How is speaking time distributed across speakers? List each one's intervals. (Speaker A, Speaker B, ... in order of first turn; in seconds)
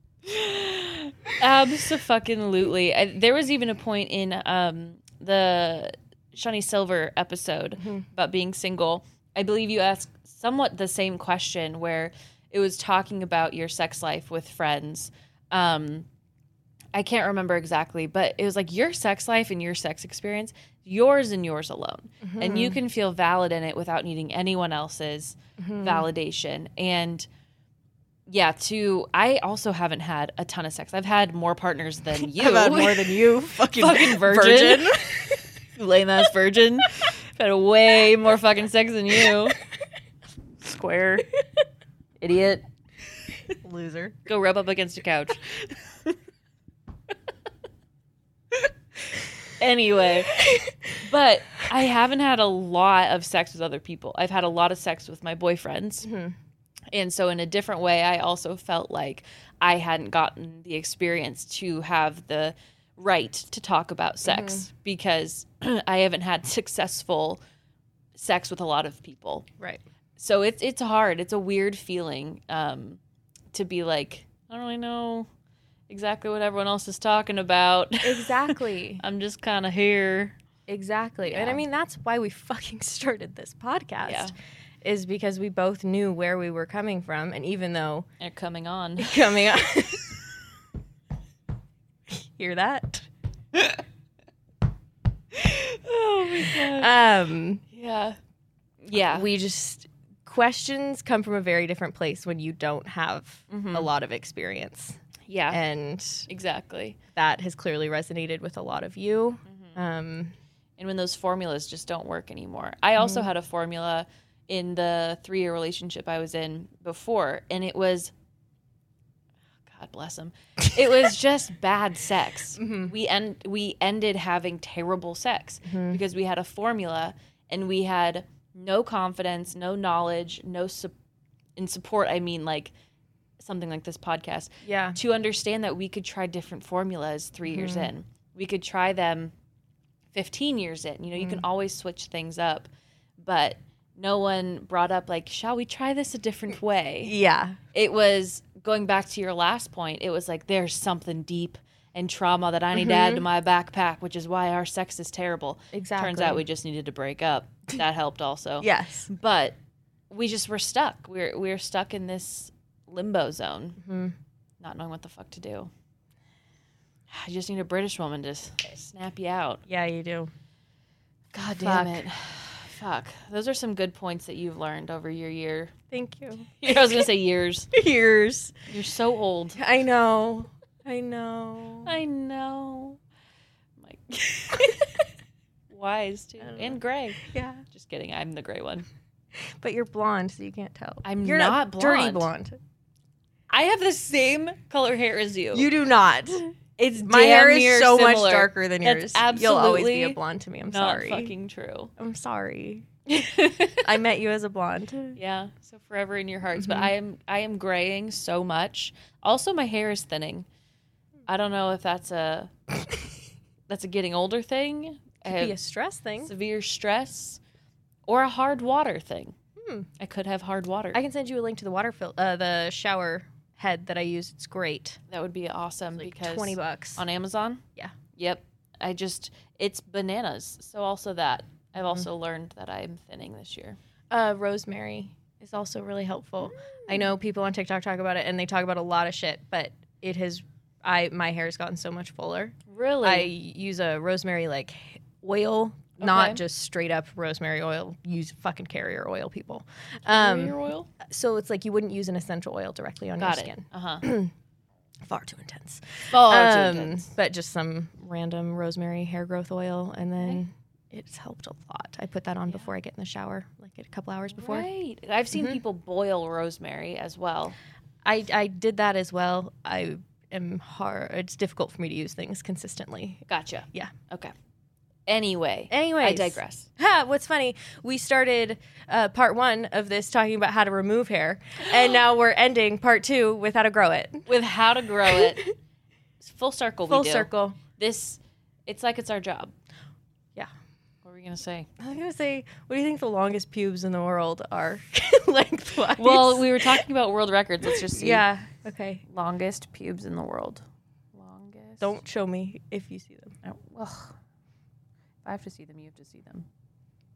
Speaker A: 0.2-16.1, 16.9-27.3, 28.3-35.0, 35.8-39.6, 40.6-41.3, 42.2-42.6, 44.3-46.1, 49.6-56.1, 56.9-67.4, 68.2-69.5, 70.2-73.0, 73.5-75.3, 75.9-80.3, 81.3-81.6, 84.0-84.3, 88.2-89.4, 93.5-93.8, 95.3-96.9, 97.7-98.2, 98.8-99.3, 103.5-103.9, 105.3-105.6, 106.3-107.0, 109.5-109.8, 110.8-118.1, 119.7-130.9, 131.6-132.7, 133.4-139.3, 140.1-142.7, 143.2-147.1, 147.7-159.5, 160.1-163.8, 164.6-165.7, 167.1-169.6, 171.3-175.7, 176.6-177.7, 178.7-179.6, 181.8-183.0, 183.8-184.9, 185.7-188.8, 191.0-192.3, 193.5-195.7, 196.8-201.9, 203.1-203.8, 205.2-210.5, 211.3-212.5, 213.7-215.5, 216.2-217.4, 218.1-219.3, 220.0-221.0, 225.1-227.6, 228.2-233.8, 242.7-243.3, 246.0-246.4, 250.1-250.9, 253.2-254.0, 256.1-257.1, 264.4-267.6, 273.3-274.3, 275.1-276.6, 284.3-285.5, 286.2-289.5, 291.0-291.7, 296.0-298.2, 299.1-300.6, 301.1-301.9, 303.4-304.1, 305.2-306.4
Speaker B: 22.2-22.8, 25.6-26.1, 32.2-35.4, 43.6-44.2, 56.0-56.3, 64.2-64.7, 78.0-79.0, 80.7-84.3, 84.8-88.1, 89.0-90.1, 92.1-93.0, 96.5-97.6, 99.1-105.0, 105.5-106.3, 107.2-110.3, 113.0-113.3, 122.6-122.9, 125.7-126.0, 134.7-135.0, 137.4-137.9, 141.1-141.4, 147.0-147.6, 152.7-153.2, 155.7-156.4, 158.6-159.1, 163.8-164.1, 169.7-170.3, 171.5-172.0, 175.9-177.1, 177.7-178.6, 179.6-181.9, 186.4-187.6, 189.6-192.6, 195.5-201.3, 202.0-202.9, 203.8-205.2, 206.6-206.9, 215.2-216.3, 219.6-219.9, 220.9-225.0, 226.0-227.0, 234.1-254.3, 255.1-264.7, 265.3-265.6, 268.0-273.2, 275.7-284.3, 286.9-287.6, 291.8-296.7, 297.7-299.0, 301.8-303.3